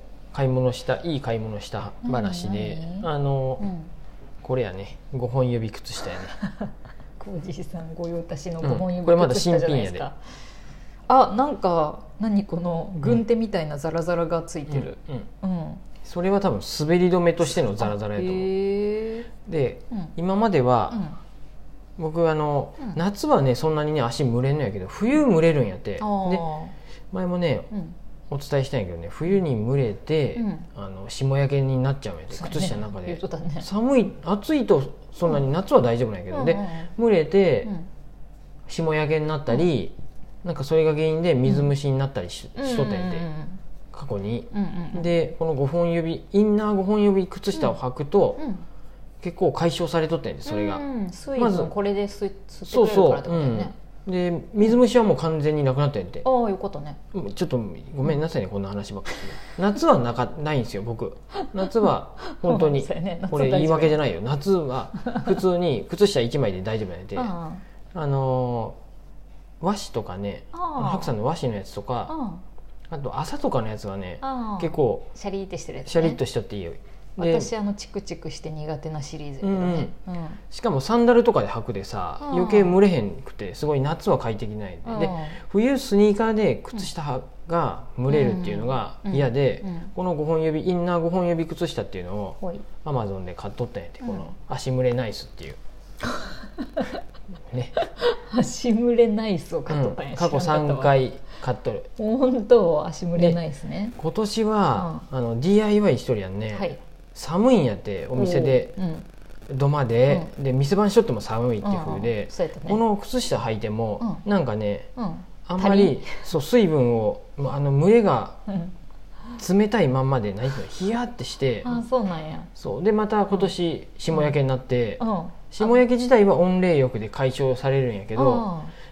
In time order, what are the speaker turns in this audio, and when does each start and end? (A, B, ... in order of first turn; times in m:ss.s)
0:00.3-0:03.6 A
0:02.0-0:03.9 B
0:04.4-0:06.4 A
0:07.2-0:10.2 B
0:08.6-0:10.1 A
0:11.1-0:15.8 B
0:14.7-0:15.3 A
0:16.0-0:18.5 A
0:17.5-0:19.3 B
0:19.4-0:21.0 A
0:20.9-0:21.2 B
0:22.0-0:26.4 A
0:26.0-0:26.7 B
0:27.1-0:27.7 A
0:28.3-0:37.7 A
0:30.4-0:30.7 B
0:32.3-0:33.7 B
0:36.3-0:36.9 B
0:38.7-0:43.3 A
0:42.6-0:43.6 B
0:43.9-0:48.4 A
0:44.5-0:45.1 B
0:48.4-0:48.6 B
0:49.2-0:50.8 A
0:50.4-0:53.7 B
0:51.4-0:51.7 A
0:52.7-0:56.2 A
0:56.2-0:57.0 B
0:57.1-1:07.3 A
1:01.4-1:01.7 B
1:02.3-1:04.0 B
1:07.1-1:07.6 B
1:07.9-1:08.8 A
1:09.6-1:12.1 A
1:10.5-1:11.1 B
1:12.1-1:12.4 B
1:12.9-1:15.1 A
1:14.2-1:16.2 B
1:15.8-1:17.5 A
1:17.2-1:20.4 B
1:19.4-1:19.9 A
1:20.5-1:35.6 A
1:22.2-1:22.8 B
1:24.8-1:25.4 B
1:28.1-1:29.9 B
1:32.4-1:32.6 B
1:34.0-1:34.3 B
1:36.2-1:36.9 B
1:37.5-1:37.8 A
1:37.8-1:40.9 B
1:39.7-1:41.9 A
1:42.0-1:44.0 B
1:44.0-1:48.8 A
1:44.7-1:45.0 B
1:46.5-1:46.8 B
1:48.1-1:49.0 B
1:49.5-1:54.9 A
1:51.6-1:52.8 B
1:55.0-1:56.3 B
1:55.4-1:58.4 A
1:58.5-1:58.7 B
1:59.4-2:01.8 A
2:01.6-2:02.5 B
2:02.6-2:08.5 A
2:05.0-2:05.7 B
2:08.1-2:08.7 B